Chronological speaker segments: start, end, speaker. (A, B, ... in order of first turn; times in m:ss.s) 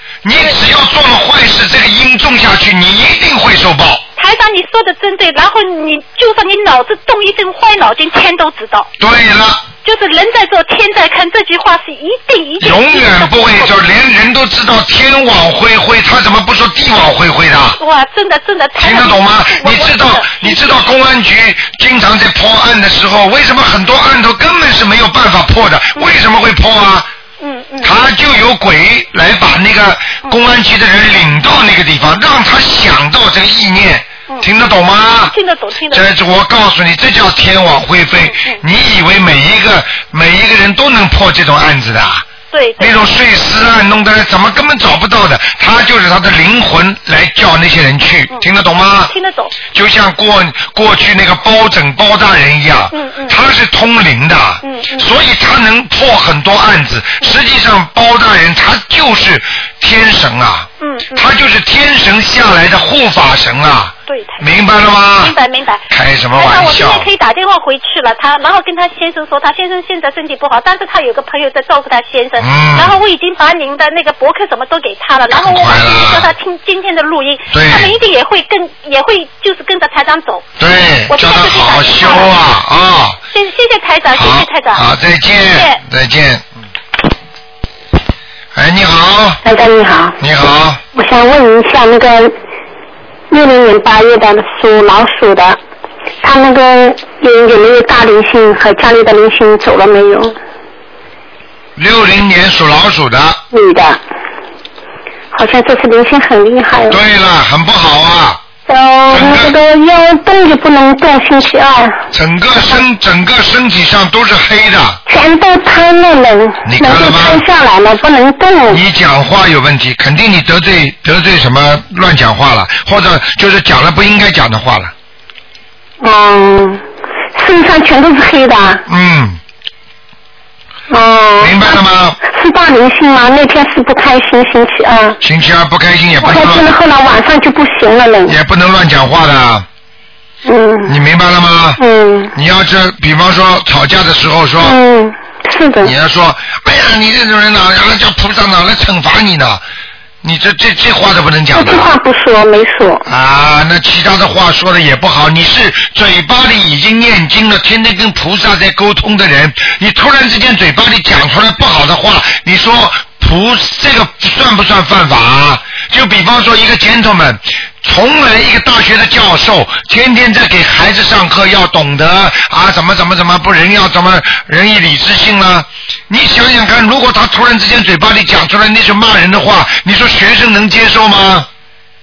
0:00.2-0:04.0 A
0:04.2-0:08.9 B
0:09.0-0:09.6 A
0:09.8-0:13.8 B
0:12.6-0:17.8 A
0:17.8-0:20.7 B
0:18.8-0:27.1 A
0:27.4-0:28.0 B
0:27.8-0:35.4 A
0:35.3-0:36.1 B
0:35.9-0:42.3 A
0:38.2-0:38.6 B
0:42.5-0:43.1 B
0:42.8-0:49.1 A
0:49.1-0:49.6 B
0:49.7-1:05.4 A
0:52.9-0:53.4 B
0:54.6-0:55.1 B
1:00.8-1:01.3 B
1:04.1-1:04.5 B
1:05.2-1:05.8 B
1:05.9-1:07.1 A
1:06.3-1:20.4 B
1:12.4-1:13.0 A
1:15.3-1:16.3 A
1:17.5-1:17.9 A
1:20.6-1:23.2 A
1:21.1-1:22.3 B
1:23.3-1:24.8 B
1:24.1-1:26.4 A
1:25.4-1:25.8 B
1:28.6-1:29.4 A
1:29.4-1:30.2 C
1:30.2-1:30.8 A
1:31.0-1:32.3 C
1:33.3-1:35.6 C
1:36.2-1:40.4 C
1:41.8-1:43.4 A
1:43.5-1:44.0 C
1:45.3-1:47.0 C
1:46.9-1:48.4 A
1:48.7-1:52.0 C
1:49.1-1:49.6 A
1:52.1-1:55.0 A
1:55.1-1:58.8 C
1:56.6-1:57.4 A
1:58.7-2:04.9 A
2:06.0-2:06.8 C
2:07.4-2:08.8 C
2:08.9-2:09.4 A
2:10.9-2:15.2 C
2:11.4-2:12.2 A
2:15.2-2:16.7 A
2:16.2-2:18.4 C
2:18.3-2:19.7 A
2:20.4-2:21.0 C
2:20.9-2:21.8 A
2:21.8-2:22.3 C
2:22.3-2:24.8 A
2:24.6-2:25.9 C
2:25.8-2:29.6 A
2:30.2-2:31.9 A
2:31.5-2:33.0 C
2:33.1-3:01.5 A